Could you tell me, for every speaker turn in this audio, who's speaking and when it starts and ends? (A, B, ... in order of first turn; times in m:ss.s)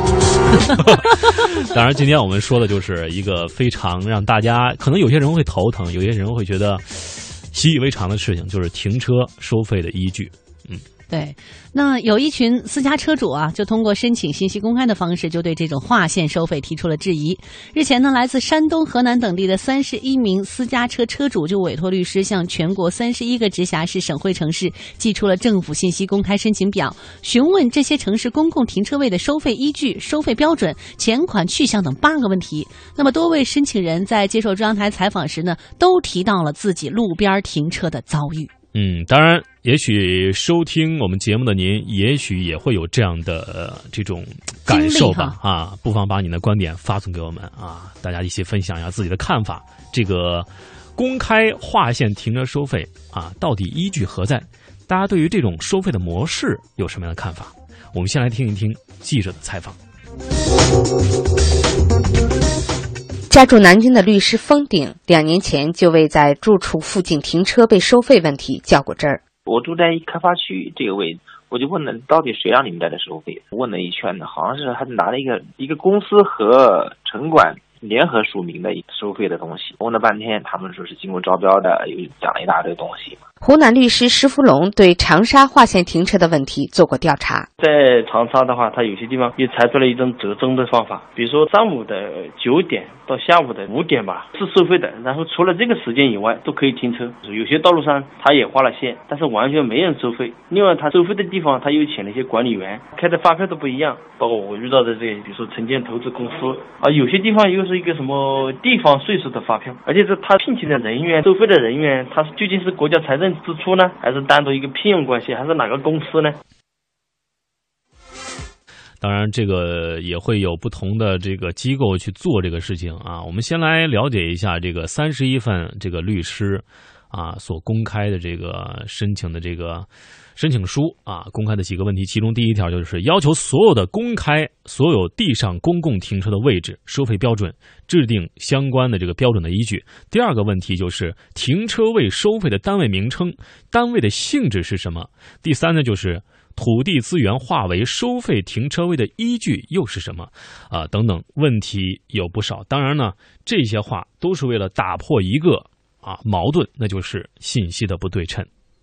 0:00.5-0:01.1 A
0:00.8-0:10.8 B
0:11.1-0:38.5 A
0:38.7-0:59.8 B
0:44.7-0:45.4 A
1:03.3-1:09.2 C
1:09.5-1:23.2 D
1:23.4-1:27.5 C
1:27.6-1:56.4 E
1:59.0-2:38.5 B